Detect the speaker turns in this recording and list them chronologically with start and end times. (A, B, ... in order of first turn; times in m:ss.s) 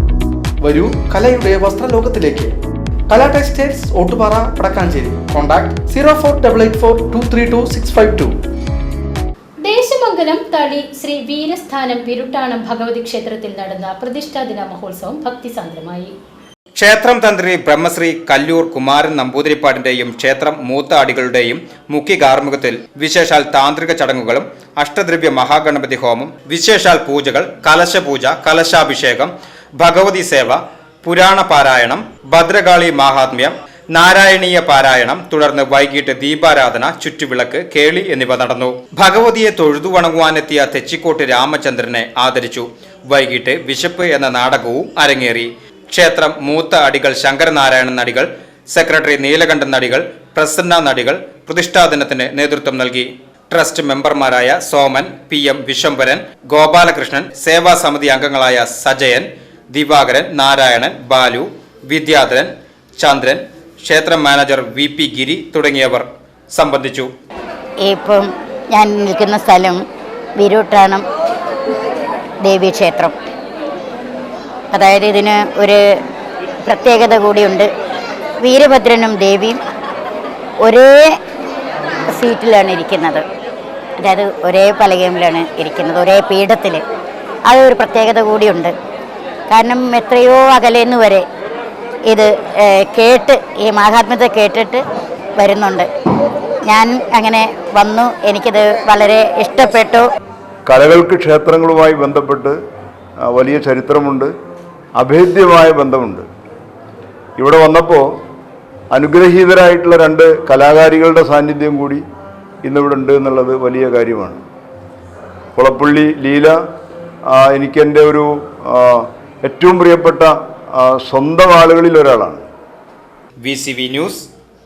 0:00.6-0:02.5 A
0:03.1-0:08.3 A
0:09.6-0:16.1 B
0:16.8-1:07.1 C
1:07.8-1:09.8 D
1:10.4-1:11.0 D
1:12.4-1:13.2 D
1:14.7-1:16.0 D
1:16.6-1:17.7 D
1:18.4-1:19.6 D
1:20.6-1:21.2 D
1:22.1-1:23.2 D
1:24.0-1:26.8 D
1:27.5-1:28.8 D
1:29.5-1:31.3 D
1:32.0-1:34.8 D
1:35.4-1:35.9 D
1:36.6-1:40.1 D
1:40.7-1:42.6 E
1:43.3-1:44.3 E
1:45.0-1:46.2 E
1:47.4-1:48.1 E
1:48.9-1:52.0 E
1:52.6-1:54.4 E
1:55.6-1:56.6 E
1:57.3-2:02.4 E
2:03.4-2:04.3 C